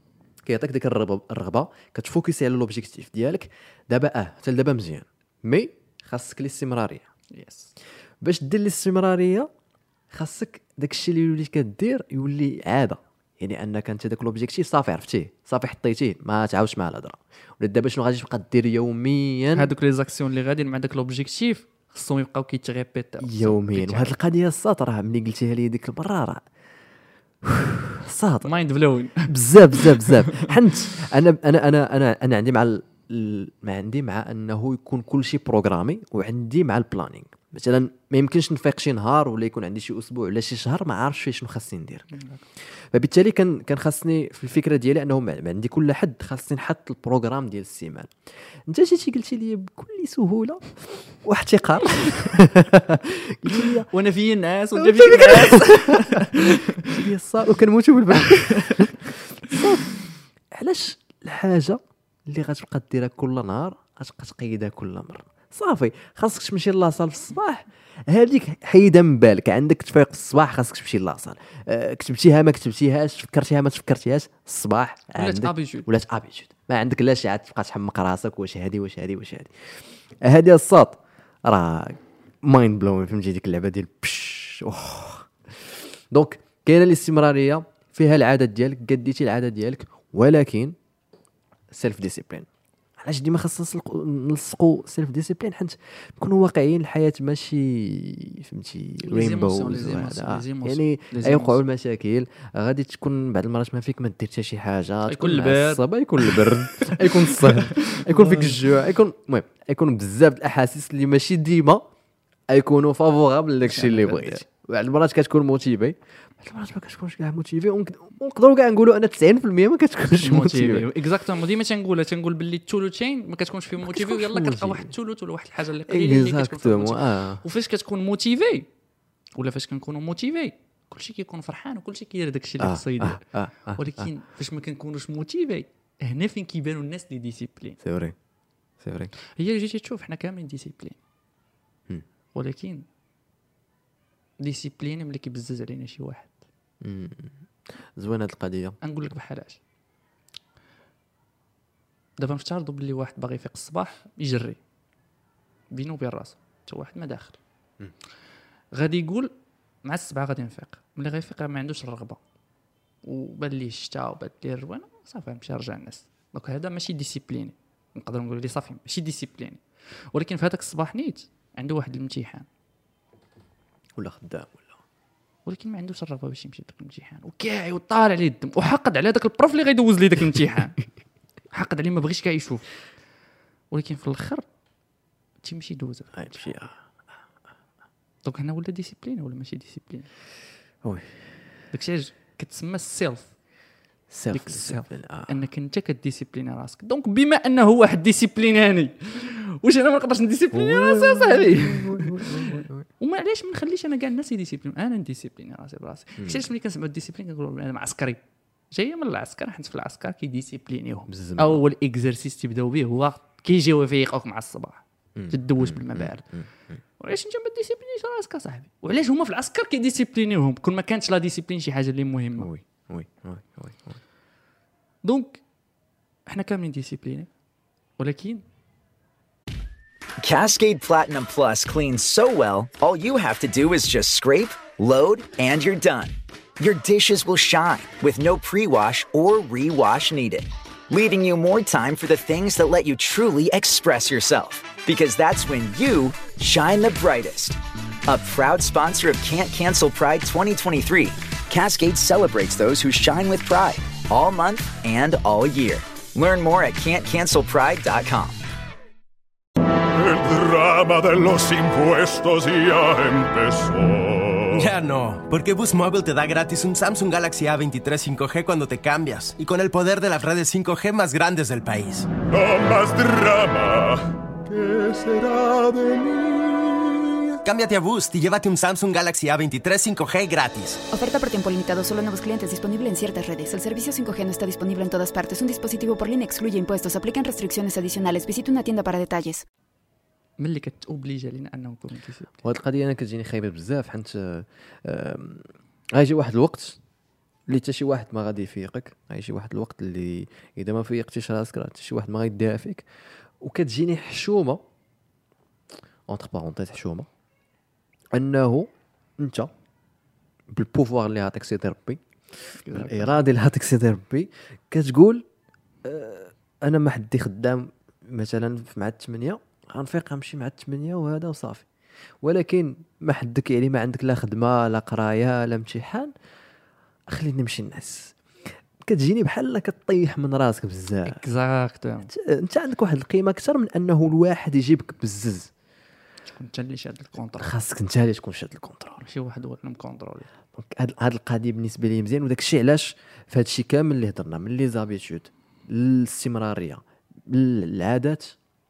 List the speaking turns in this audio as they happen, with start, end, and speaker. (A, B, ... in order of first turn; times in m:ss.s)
0:00.4-0:07.1 A
0:07.3-0:07.7 B
0:08.2-0:09.5 A
0:10.1-0:19.7 A
0:19.5-0:24.2 B
0:23.2-0:26.4 A
0:27.4-0:28.6 A
0:28.4-0:30.5 B
0:29.2-0:42.1 A
0:42.1-0:42.4 B
0:42.7-0:53.9 A
0:51.8-0:52.1 B
0:53.5-0:57.0 B
0:54.8-1:30.8 A
0:58.2-0:58.9 B
1:15.2-1:15.9 B
1:31.7-1:32.5 A
1:33.0-1:51.9 A
1:39.0-1:41.6 B
1:45.1-1:48.6 B
1:52.5-2:00.9 A
1:53.6-1:54.4 B
2:00.1-2:08.7 B
2:03.8-2:04.9 A
2:05.9-2:07.4 A
2:09.4-2:17.8 B
2:12.6-2:14.1 A
2:17.8-2:18.2 A
2:18.8-2:19.1 A
2:19.4-2:21.0 B
2:22.4-2:22.9 B
2:24.4-2:26.4 B
2:26.8-2:27.4 A
2:28.0-2:28.8 A
2:28.8-2:29.6 B
2:32.2-2:34.6 B
2:35.7-2:37.4 B
2:38.7-2:39.3 B
2:39.8-2:42.2 B
2:43.0-2:52.5 B
2:54.0-2:54.8 A
2:55.5-3:00.8 B
3:01.5-3:02.7 B
3:03.7-3:04.4 B
3:05.4-3:06.5 B
3:06.1-3:06.7 A
3:08.2-3:10.1 B
3:10.8-3:11.4 A
3:11.7-3:13.4 B
3:14.1-3:15.4 A
3:14.3-3:28.2 B
3:20.5-3:22.9 A
3:28.7-3:36.3 B
3:31.1-3:31.6 A
3:35.2-3:36.8 A
3:37.0-3:42.5 B
3:42.4-3:44.0 A
3:45.0-3:45.4 B
3:46.3-3:47.3 B
3:48.0-3:48.4 B
3:50.2-4:18.4 C
4:19.8-4:24.7 D
4:24.5-4:32.1 E
4:32.2-4:37.4 D
4:37.4-4:40.8 E
4:40.9-4:49.4 F
4:50.4-4:52.3 B
4:52.4-4:56.8 A
4:57.5-5:02.9 A
5:03.4-5:04.6 A
5:06.1-5:07.1 A
5:08.1-5:09.5 A
5:10.5-5:15.2 A
5:12.5-5:13.2 B
5:15.8-5:21.7 A
5:22.2-5:26.1 A
5:27.1-5:31.2 A
5:31.0-5:32.1 B
5:32.1-5:35.5 A
5:36.4-5:37.5 B
5:37.4-5:39.0 A
5:39.0-5:40.3 B
5:40.6-5:48.4 A